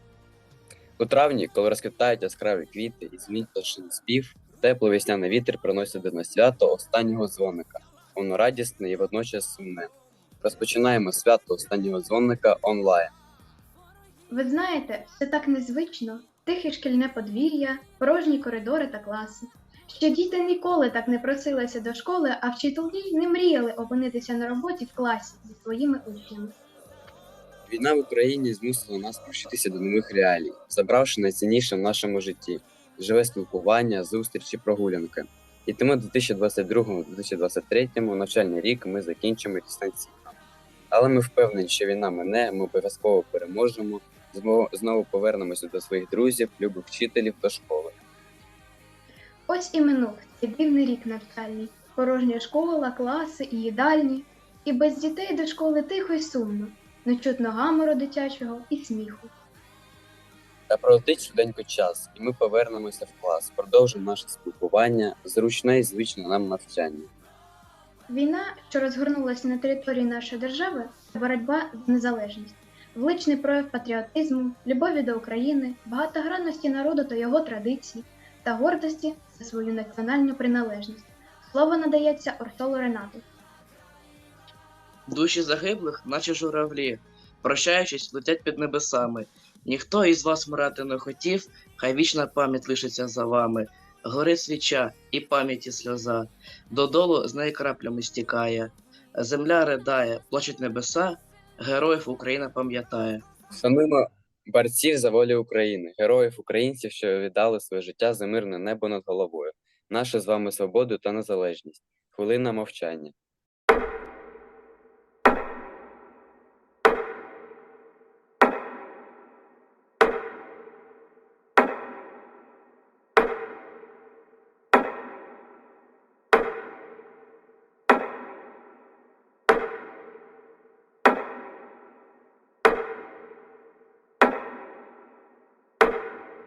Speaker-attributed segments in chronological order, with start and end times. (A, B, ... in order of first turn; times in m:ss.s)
0:01.0-0:09.9 A
0:10.4-0:13.1 A
0:14.3-0:26.5 B
0:27.7-0:40.3 A
0:40.9-0:48.0 A
0:49.5-0:59.3 B
1:00.7-1:07.1 A
1:08.1-1:23.2 B
1:25.1-1:43.2 C
1:43.6-1:53.1 A